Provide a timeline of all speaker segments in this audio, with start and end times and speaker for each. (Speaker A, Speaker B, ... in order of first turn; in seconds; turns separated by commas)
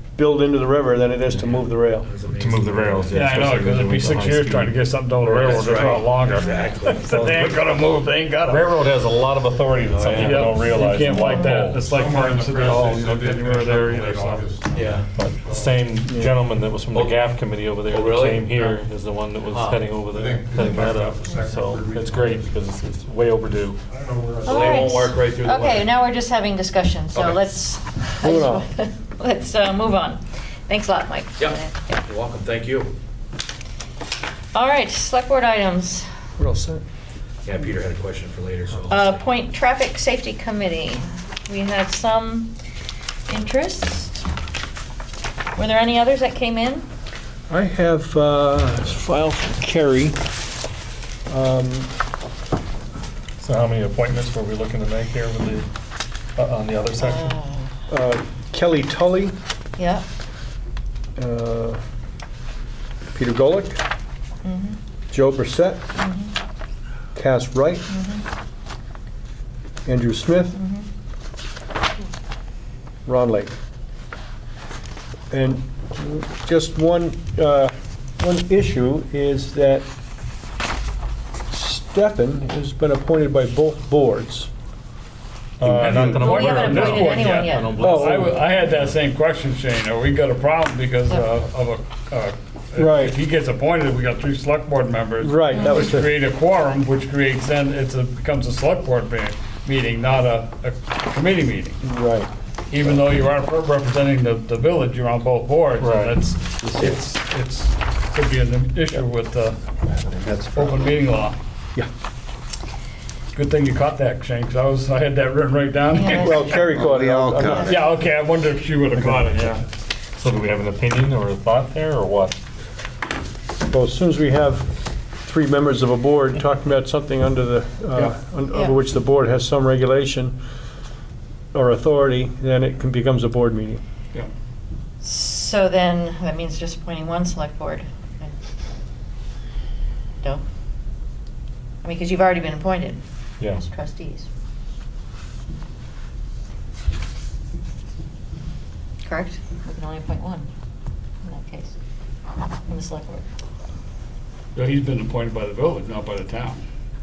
Speaker A: 0.2-2.1, Speaker B: 1.3-3.6, Speaker C: 2.3-4.8, Speaker D: 3.1-8.7, Speaker B: 5.2-7.1, Speaker C: 5.3-6.0, Speaker C: 7.0-7.7, Speaker C: 8.4-11.9, Speaker B: 9.9-10.7, Speaker D: 10.2-14.6, Speaker E: 11.0-11.6, Speaker F: 11.8-15.9, Speaker C: 12.5-13.0, Speaker B: 14.7-15.1, Speaker C: 15.1-23.8, Speaker B: 16.9-17.2, Speaker B: 17.9-18.8, Speaker B: 19.5-19.9, Speaker F: 20.0-22.5, Speaker F: 23.9-24.9, Speaker B: 24.4-25.9, Speaker E: 24.4-32.0, Speaker B: 27.1-27.4, Speaker A: 28.2-28.6, Speaker B: 31.4-32.9, Speaker E: 34.5-36.1, Speaker A: 36.4-36.8, Speaker B: 37.4-39.2, Speaker E: 38.9-42.5, Speaker E: 43.3-44.3, Speaker E: 45.5-46.9, Speaker A: 47.5-50.2, Speaker A: 51.3-51.9, Speaker C: 53.4-55.7, Speaker C: 56.4-57.3, Speaker E: 57.0-57.8, Speaker A: 57.9-59.4, Speaker E: 59.8-60.0, Speaker A: 61.2-61.8, Speaker A: 63.1-63.8, Speaker E: 64.4-64.8, Speaker A: 65.1-65.8, Speaker E: 66.0-66.3, Speaker A: 67.2-67.8, Speaker E: 67.9-68.2, Speaker A: 69.9-70.6, Speaker E: 70.5-70.9, Speaker A: 73.1-73.5, Speaker A: 75.3-79.9, Speaker A: 81.5-84.5, Speaker C: 85.6-88.9, Speaker D: 85.6-101.8, Speaker E: 86.0-87.8, Speaker A: 87.7-88.3, Speaker A: 92.8-93.2, Speaker A: 95.2-96.2, Speaker E: 95.5-96.0, Speaker A: 101.8-102.3, Speaker D: 102.7-109.6, Speaker C: 105.8-106.2, Speaker G: 110.2-111.0, Speaker D: 110.5-111.4, Speaker D: 113.3-116.4, Speaker E: 115.9-116.5, Speaker A: 116.2-117.9, Speaker G: 116.2-117.8, Speaker E: 117.5-117.8, Speaker D: 117.7-119.6, Speaker A: 118.9-119.5, Speaker C: 120.2-122.4, Speaker A: 123.7-124.7, Speaker A: 125.2-130.4, Speaker E: 128.5-128.8, Speaker A: 131.5-133.8, Speaker E: 135.0-138.4, Speaker E: 141.8-144.3, Speaker E: 149.0-150.5, Speaker E: 151.2-151.8, Speaker E: 152.7-153.2, Speaker D: 154.6-156.6